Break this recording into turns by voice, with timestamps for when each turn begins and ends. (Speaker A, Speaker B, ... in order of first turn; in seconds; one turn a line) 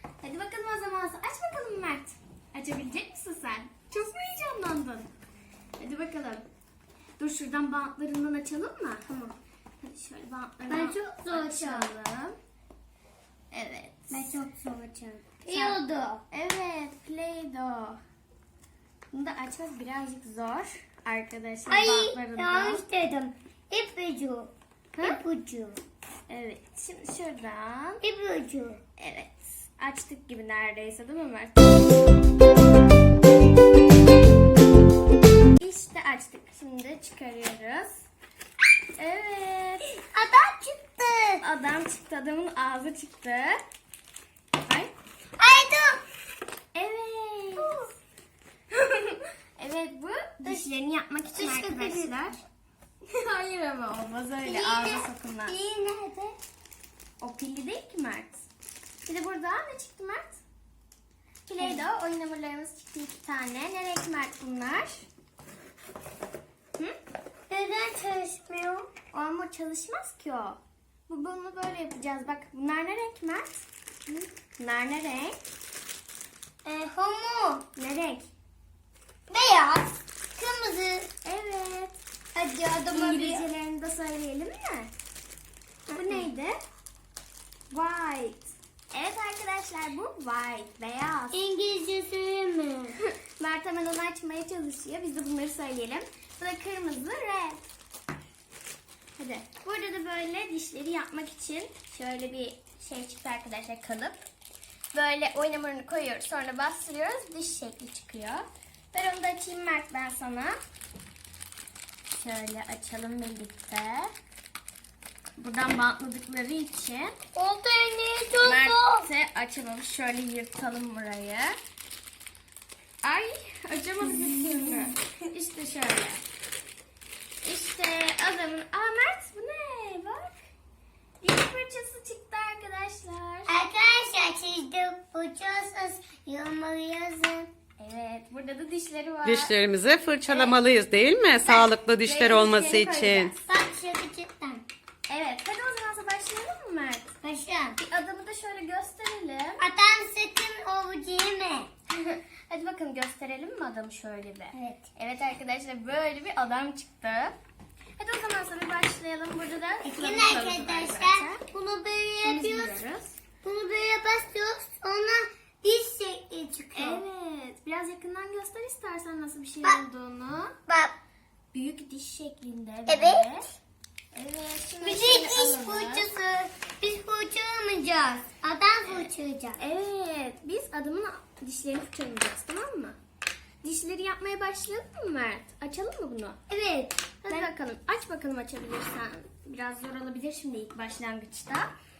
Speaker A: 0.2-5.1
Speaker A: 5.8-6.4
Speaker A: 7.2-9.1
Speaker B: 9.1-9.3
Speaker A: 9.8-12.3
Speaker B: 10.7-11.9
Speaker A: 13.5-14.4
Speaker B: 14.1-16.2
Speaker A: 15.5-15.8
Speaker A: 16.3-18.0
Speaker A: 19.1-22.8
Speaker B: 21.7-25.8
Speaker A: 26.3-28.0
Speaker B: 28.0-28.8
Speaker A: 29.0-32.0
Speaker A: 35.6-38.0
Speaker A: 39.0-39.9
Speaker B: 40.1-41.4
Speaker A: 41.4-43.6
Speaker A: 44.6-44.9
Speaker B: 45.4-46.0
Speaker A: 46.7-47.8
Speaker B: 47.6-47.9
Speaker A: 48.7-52.4
Speaker B: 51.3-52.2
Speaker A: 53.1-55.5
Speaker B: 54.4-56.3
Speaker A: 57.2-58.5
Speaker A: 59.0-60.4
Speaker A: 61.5-65.0
Speaker B: 61.6-61.8
Speaker B: 67.5-68.9
Speaker A: 69.1-75.4
Speaker B: 76.6-77.7
Speaker A: 77.8-78.3
Speaker B: 79.3-81.1
Speaker A: 81.2-82.0
Speaker B: 82.3-83.5
Speaker A: 82.9-84.9
Speaker B: 85.9-86.2
Speaker A: 85.9-86.5
Speaker A: 87.7-91.4
Speaker B: 91.3-92.9
Speaker A: 93.0-97.6
Speaker A: 99.2-104.2
Speaker A: 104.9-110.5
Speaker A: 112.1-114.1
Speaker A: 115.4-117.2
Speaker B: 117.3-119.1
Speaker A: 118.4-121.5
Speaker A: 123.0-126.2
Speaker B: 124.2-124.9
Speaker A: 127.4-130.4
Speaker A: 131.2-133.5
Speaker B: 133.5-137.5
Speaker A: 137.8-139.5
Speaker C: 139.2-143.3
Speaker A: 140.2-140.6
Speaker A: 141.4-143.5
Speaker B: 143.5-144.6
Speaker A: 145.1-147.1
Speaker B: 147.2-147.8
Speaker A: 147.8-149.6
Speaker B: 149.6-151.7
Speaker A: 151.9-157.3
Speaker B: 154.5-154.8
Speaker A: 158.0-161.4
Speaker B: 159.8-162.8
Speaker A: 162.2-163.2
Speaker B: 163.4-167.0
Speaker A: 166.7-170.6
Speaker B: 170.7-170.9
Speaker A: 171.5-173.5
Speaker B: 172.9-173.2
Speaker A: 174.1-176.1
Speaker B: 174.8-179.6
Speaker A: 178.8-183.0
Speaker A: 183.6-186.4
Speaker B: 186.5-187.5
Speaker A: 187.2-191.7